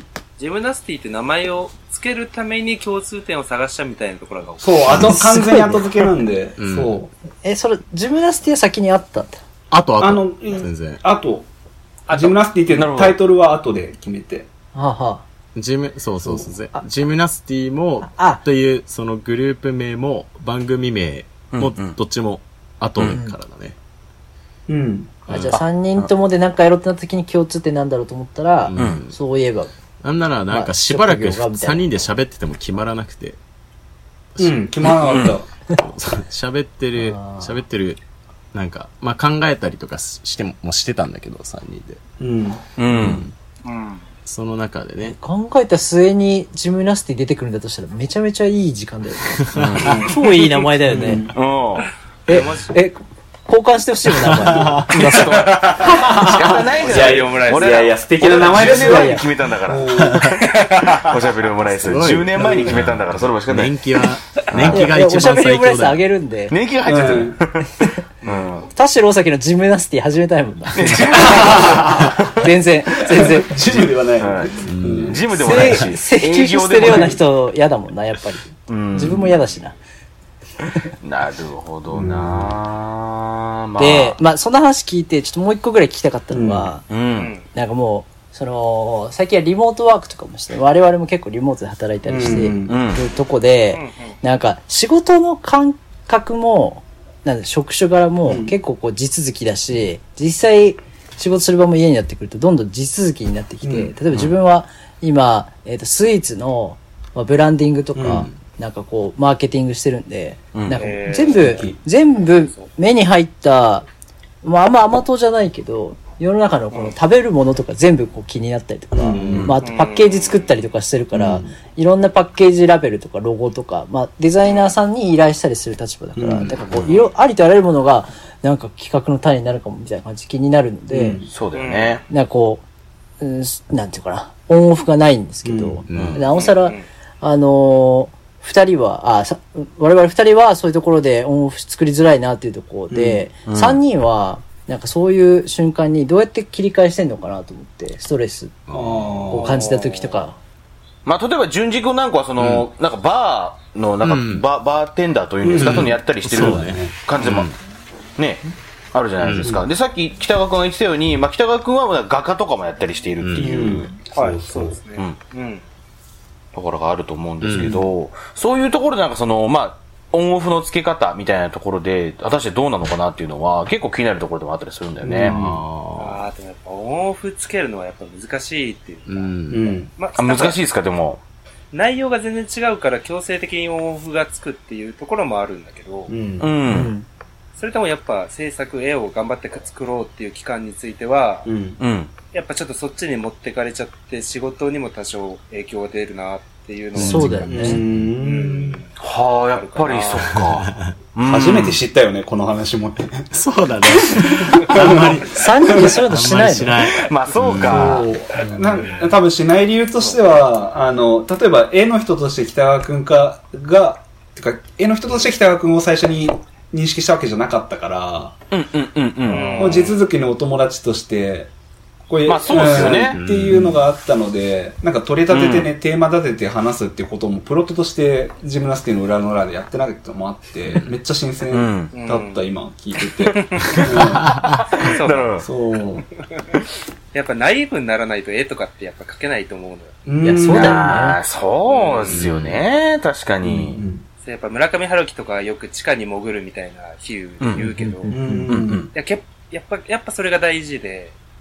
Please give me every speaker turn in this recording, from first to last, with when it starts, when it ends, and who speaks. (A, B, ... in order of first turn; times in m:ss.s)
0:00.4-0:05.1 A
0:04.6-0:07.1 B
0:04.9-0:05.9 C
0:06.6-0:07.0 D
0:07.4-0:09.4 C
0:09.7-0:11.0 D
0:10.0-0:11.4 B
0:12.1-0:12.4 A
0:12.1-0:14.5 B
0:12.7-0:13.2 E
0:14.7-0:15.2 C
0:15.5-0:23.8 D
0:18.0-0:18.4 C
0:21.5-0:22.0 E
0:23.1-0:23.4 C
0:24.7-0:25.2 B
0:25.3-0:29.7 C
0:25.3-0:25.6 D
0:28.6-0:29.2 D
0:28.8-0:29.0 E
0:30.0-0:33.4 D
0:30.5-0:31.9 C
0:34.3-0:34.6 D
0:34.4-0:35.5 B
0:35.0-0:35.4 E
0:35.7-0:38.0 D
0:37.0-0:37.6 C
0:38.5-0:42.0 D
0:42.2-0:42.6 B
0:42.8-0:43.2 E
0:42.9-0:43.3 D
0:43.6-0:44.0 A
0:44.2-0:45.2 D
0:45.0-0:51.3 C
0:49.5-0:49.9 D
0:49.5-0:50.1 E
0:49.8-0:50.2 B
0:50.9-0:51.3 B
0:51.3-0:51.9 E
0:52.3-0:52.8 A
0:52.3-0:55.5 C
0:54.2-0:54.9 D
0:54.9-1:03.8 E
0:55.3-0:56.0 A
0:55.7-1:00.3 B
0:56.8-0:57.9 A
0:58.5-0:59.2 C
1:00.0-1:00.3 D
1:00.4-1:01.0 A
1:01.7-1:06.0 D
1:02.4-1:02.8 B
1:04.5-1:04.9 E
1:04.7-1:06.5 C
1:06.5-1:08.7 E
1:06.8-1:07.4 B
1:08.7-1:13.6 C
1:10.7-1:12.5 E
1:11.2-1:12.2 B
1:13.1-1:15.2 B
1:14.2-1:17.2 E
1:14.6-1:15.9 D
1:15.4-1:19.8 C
1:16.8-1:17.2 B
1:18.7-1:19.3 E
1:21.0-1:24.2 E
1:21.9-1:22.6 B
1:23.8-1:26.9 C
1:26.3-1:26.7 B
1:26.9-1:27.3 E
1:27.2-1:27.5 A
1:27.5-1:53.8 C
1:32.0-1:32.8 B
1:32.6-1:33.0 E
1:33.7-1:34.1 A
1:38.2-1:38.6 B
1:43.6-1:43.9 B
1:48.0-1:48.3 B
1:50.5-1:50.8 E
1:50.8-1:51.6 A
1:51.3-1:51.8 B
1:54.4-2:11.2 C
1:58.9-1:59.6 B
1:59.1-1:59.5 D
1:59.3-1:59.6 E
1:59.6-2:00.6 A
2:01.1-2:01.5 B
2:04.4-2:04.7 A
2:06.2-2:06.6 B
2:06.8-2:07.1 A
2:10.9-2:11.3 B
2:11.3-2:12.0 E
2:11.5-2:12.0 A
2:12.1-2:12.6 C
2:13.2-2:28.6 C
2:15.4-2:15.8 B
2:15.9-2:16.2 D
2:15.9-2:16.2 E
2:16.3-2:16.8 A
2:22.9-2:23.3 B
2:23.4-2:23.8 E
2:28.7-2:29.4 D
2:28.7-2:29.7 B
2:29.3-2:30.4 C
2:31.0-2:37.5 E
2:32.4-2:32.7 D
2:34.0-2:34.4 D
2:35.4-2:37.0 B
2:35.6-2:37.5 D
2:38.2-2:43.9 E
2:39.2-2:39.6 D
2:43.2-2:43.8 D
2:43.3-2:44.8 B
2:44.1-2:45.6 A
2:46.5-2:55.4 E
2:47.4-2:47.8 D
2:47.6-2:47.8 B
2:55.0-2:55.6 B
2:55.2-2:56.2 D
2:56.0-2:59.3 A
2:59.1-2:59.7 D
2:59.5-2:59.9 B
3:00.0-3:00.6 A
3:00.2-3:01.2 E
3:01.7-3:06.1 A
3:06.1-3:06.5 B
3:06.4-3:06.9 E
3:06.7-3:07.0 C
3:07.5-3:11.5 A
3:11.4-3:11.8 B
3:11.8-3:12.1 E
3:12.3-3:20.4 A
3:16.9-3:18.1 D
3:17.0-3:17.8 C
3:17.2-3:18.8 B
3:19.0-3:21.8 E
3:20.3-3:20.9 D
3:21.2-3:23.3 B
3:23.3-3:29.1 D
3:23.9-3:26.0 B
3:25.3-3:26.9 C
3:26.8-3:28.1 E
3:27.5-3:38.3 B
3:30.0-3:30.5 A
3:38.5-3:39.8 E
3:39.3-3:40.0 A
3:39.6-3:41.5 B
3:42.1-3:54.3 B
3:42.2-3:43.2 E
3:42.6-3:43.8 D
3:45.3-3:45.7 E
3:51.5-3:51.9 E
3:51.9-3:52.5 A
3:53.2-3:55.4 E
3:53.3-3:53.8 A
3:54.3-3:54.5 D
3:54.8-3:55.4 A
3:55.4-3:56.0 B
3:57.1-4:00.0 A
4:00.0-4:00.9 B
4:00.2-4:01.2 C
4:00.4-4:03.8 E
4:01.6-4:02.2 A
4:02.1-4:02.6 D
4:03.4-4:04.0 B
4:04.2-4:08.1 A
4:07.4-4:07.7 E
4:07.6-4:08.5 C
4:08.1-4:08.9 B
4:08.5-4:08.8 E
4:08.9-4:11.1 A